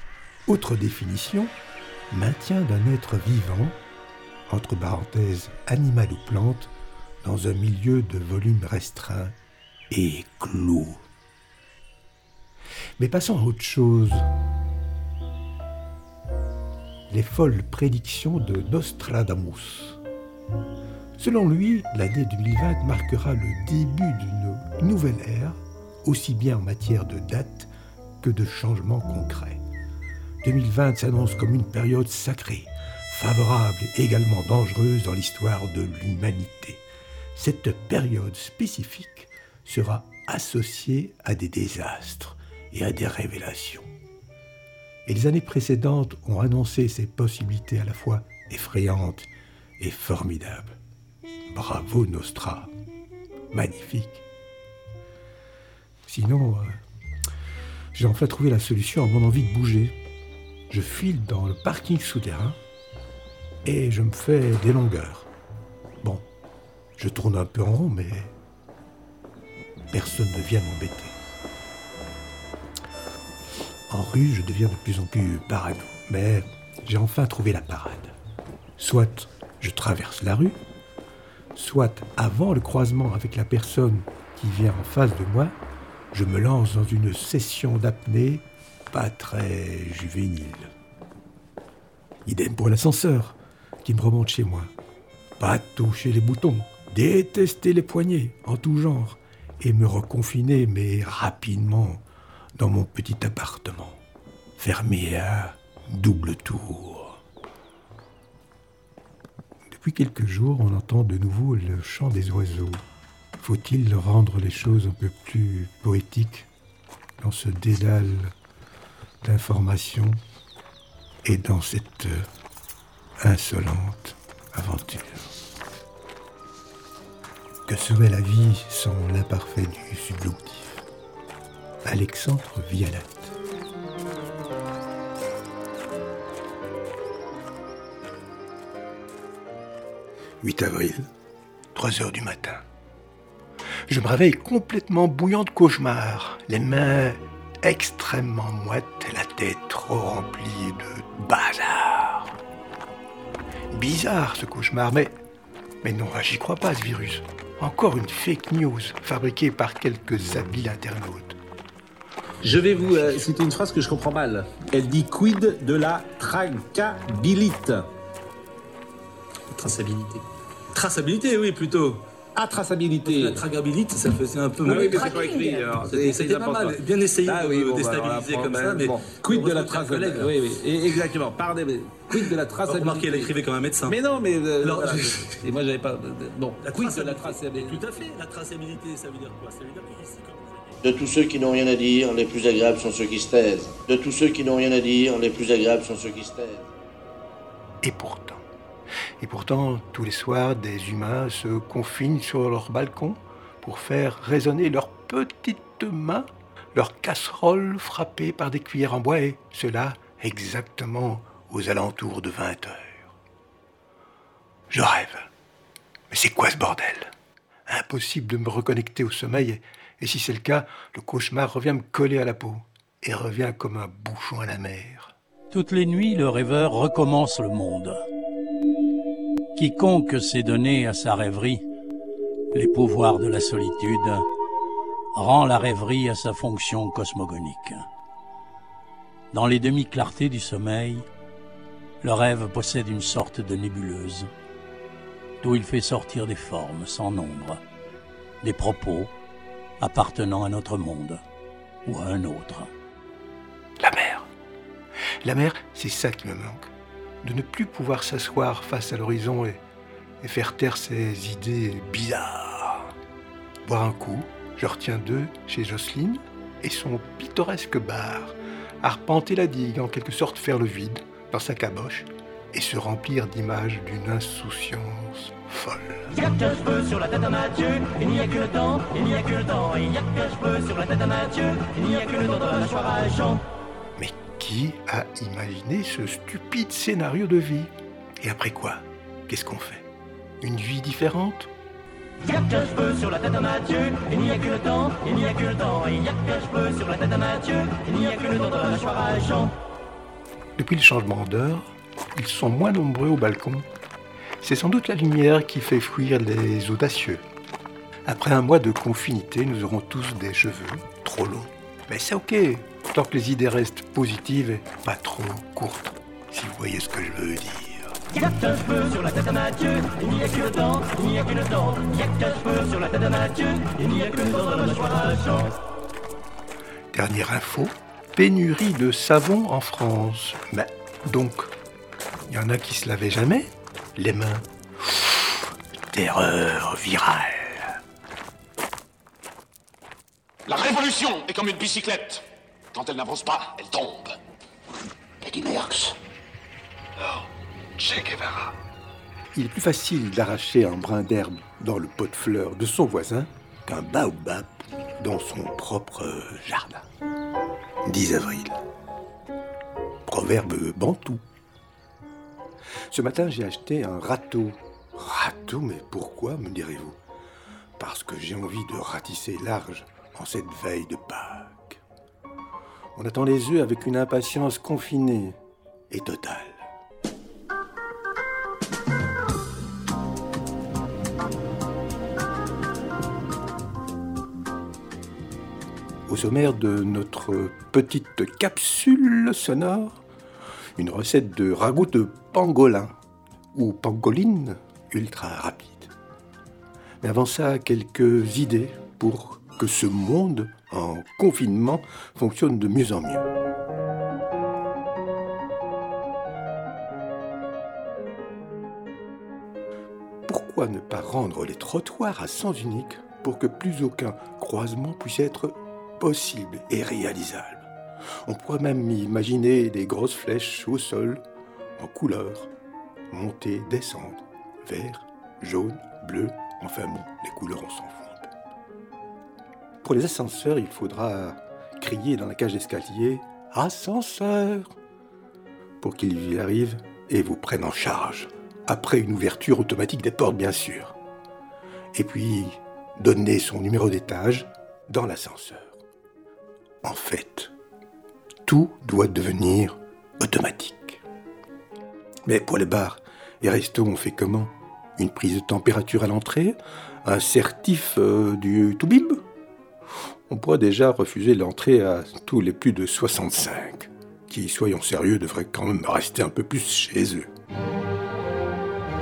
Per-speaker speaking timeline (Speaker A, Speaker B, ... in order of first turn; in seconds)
Speaker A: 0.5-1.5, 2.1-3.8, 4.5-6.7, 7.2-9.3, 9.9-11.0, 13.0-14.3, 17.1-20.0, 21.2-29.6, 30.4-36.8, 37.4-43.9, 45.1-50.8, 51.5-52.7, 53.5-54.2, 56.1-56.8, 57.9-60.0, 60.7-62.6, 63.6-65.3, 67.0-68.3, 69.9-71.2, 73.9-78.1, 78.8-80.6, 81.5-85.5, 86.1-90.7, 92.2-94.7, 95.4-102.0, 102.6-104.0, 104.6-107.2, 109.7-112.8, 113.4-116.5, 117.2-118.3, 119.2-120.2, 121.2-122.2, 123.2-125.3, 127.7-130.8, 131.8-133.3, 140.4-141.1, 141.7-142.6, 143.9-152.4, 153.7-155.2, 155.8-161.4, 197.8-198.4, 199.2-213.2, 214.7-215.3, 216.1-217.1, 217.7-225.1, 253.8-254.3, 255.2-256.7, 257.2-259.6, 260.2-262.9, 263.6-276.1, 284.0-289.9, 290.4-291.5, 300.6-303.7, 304.4-307.2, 308.1-317.9, 326.9-331.5, 332.3-337.8, 349.3-356.9, 357.8-358.6, 360.1-361.2, 362.9-367.0, 367.8-371.8, 372.9-375.4, 375.9-376.7, 386.1-390.0, 390.8-392.9, 393.5-395.9, 397.0-403.3, 410.3-417.7, 418.2-421.2, 421.8-422.5, 423.1-428.3, 429.8-434.8, 435.8-440.9, 441.9-445.8, 446.8-447.5, 448.5-451.0, 452.2-459.2, 460.3-467.3
Speaker B: 162.4-167.8, 169.5-170.2, 170.8-171.8, 172.3-187.9
Speaker C: 170.9-171.7, 173.0-180.6, 182.1-184.0, 184.6-185.4, 186.6-190.8
Speaker D: 190.8-196.7
Speaker E: 225.5-228.1, 229.6-231.6, 232.5-234.2, 235.2-237.9, 239.3-241.1, 242.0-244.3, 245.4-247.6, 248.4-249.1, 249.8-251.2, 251.8-252.7
Speaker F: 276.1-283.4, 292.2-299.5, 318.1-325.5
Speaker G: 340.5-344.1, 345.2-345.9, 347.0-347.3, 347.8-348.5